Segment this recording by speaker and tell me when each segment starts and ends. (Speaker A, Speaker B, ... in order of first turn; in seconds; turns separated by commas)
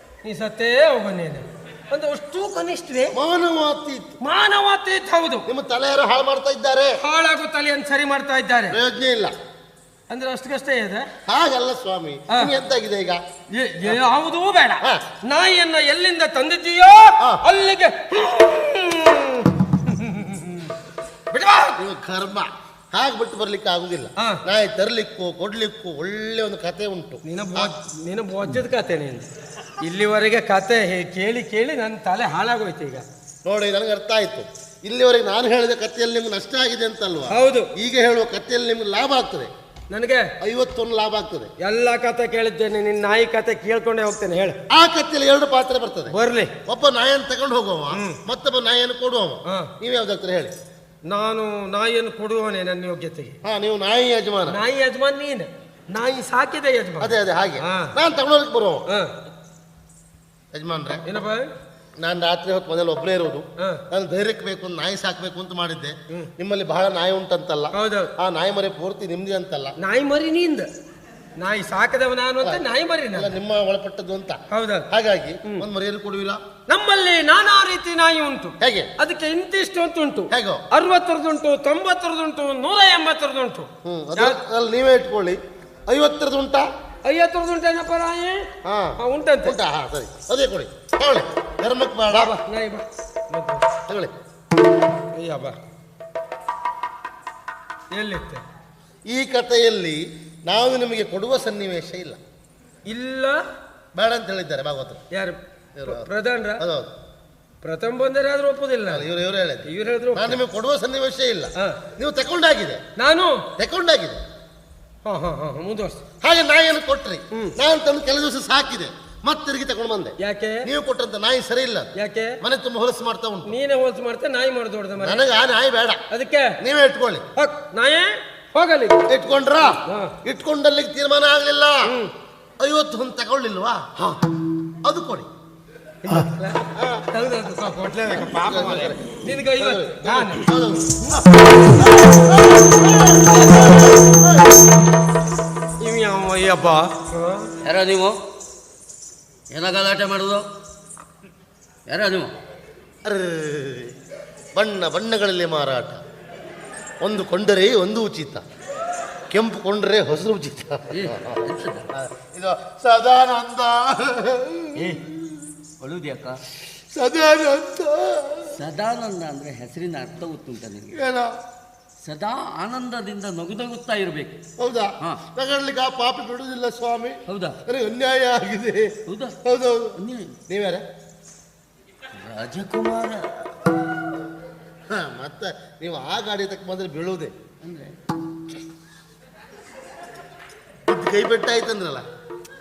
Speaker A: 0.2-3.2, Speaker B: 3.1-4.2, Speaker A: 4.2-5.5, Speaker B: 5.5-7.0, Speaker A: 7.0-8.8, Speaker B: 8.7-9.3, Speaker A: 10.1-11.1, Speaker B: 11.3-13.2, Speaker A: 13.5-20.7, Speaker A: 21.3-21.8, Speaker B: 21.8-27.7, Speaker A: 27.2-29.3, Speaker A: 29.8-33.0, Speaker B: 33.4-39.5, Speaker A: 37.3-37.7, Speaker A: 39.9-40.3, Speaker B: 40.4-41.5, Speaker A: 41.6-44.6, Speaker B: 44.7-46.1, Speaker A: 46.1-46.5, Speaker B: 46.7-50.5, Speaker A: 47.9-48.2, Speaker A: 49.5-49.7, Speaker A: 51.1-53.4, Speaker B: 53.4-54.6, Speaker A: 54.5-58.0, Speaker B: 57.0-58.8, Speaker B: 60.5-61.0, Speaker A: 61.0-61.5, Speaker B: 62.0-69.7, Speaker A: 67.7-68.1, Speaker A: 69.8-70.7, Speaker A: 71.4-73.3, Speaker B: 73.2-76.4, Speaker A: 74.5-74.9, Speaker A: 76.7-84.4, Speaker B: 78.6-78.9, Speaker B: 80.3-80.6, Speaker B: 83.8-86.7, Speaker A: 87.0-88.5, Speaker B: 88.7-92.3, Speaker A: 89.0-89.6, Speaker A: 92.1-93.6, Speaker A: 95.1-95.6, Speaker A: 97.9-98.4, Speaker B: 99.1-102.2, Speaker A: 102.9-103.4, Speaker B: 103.9-105.0, Speaker A: 105.1-106.6, Speaker B: 105.8-106.1, Speaker B: 106.6-106.9, Speaker A: 107.6-109.1, Speaker B: 108.9-112.8, Speaker A: 109.7-110.4, Speaker A: 113.0-113.5, Speaker B: 113.6-114.2, Speaker A: 115.0-116.0, Speaker B: 116.2-120.1, Speaker A: 120.2-120.7, Speaker B: 120.7-121.9, Speaker A: 122.0-122.4, Speaker B: 122.4-123.5, Speaker A: 123.5-125.3, Speaker B: 125.0-126.0, Speaker A: 126.1-126.6, Speaker B: 126.6-127.2, Speaker A: 127.4-129.1, Speaker B: 129.1-131.9, Speaker A: 129.6-130.2, Speaker A: 131.9-132.1, Speaker B: 132.6-133.9, Speaker B: 134.8-135.3, Speaker A: 136.1-140.5, Speaker B: 136.4-137.0, Speaker B: 138.3-144.5, Speaker A: 145.8-147.5, Speaker C: 147.6-148.2, Speaker C: 149.5-150.5, Speaker C: 151.9-152.3, Speaker B: 153.1-153.9, Speaker B: 154.6-156.0, Speaker B: 157.0-158.4, Speaker B: 159.3-161.4, Speaker C: 160.9-161.9, Speaker B: 161.9-165.4, Speaker C: 164.8-165.1, Speaker C: 165.8-166.4, Speaker B: 166.9-168.5, Speaker C: 168.6-171.0, Speaker B: 170.9-171.3, Speaker C: 172.0-174.4, Speaker B: 174.6-180.8, Speaker C: 177.3-177.6, Speaker C: 179.1-179.4, Speaker C: 180.0-180.4, Speaker C: 182.2-183.4, Speaker B: 184.9-187.3, Speaker C: 187.6-188.0, Speaker B: 190.9-192.0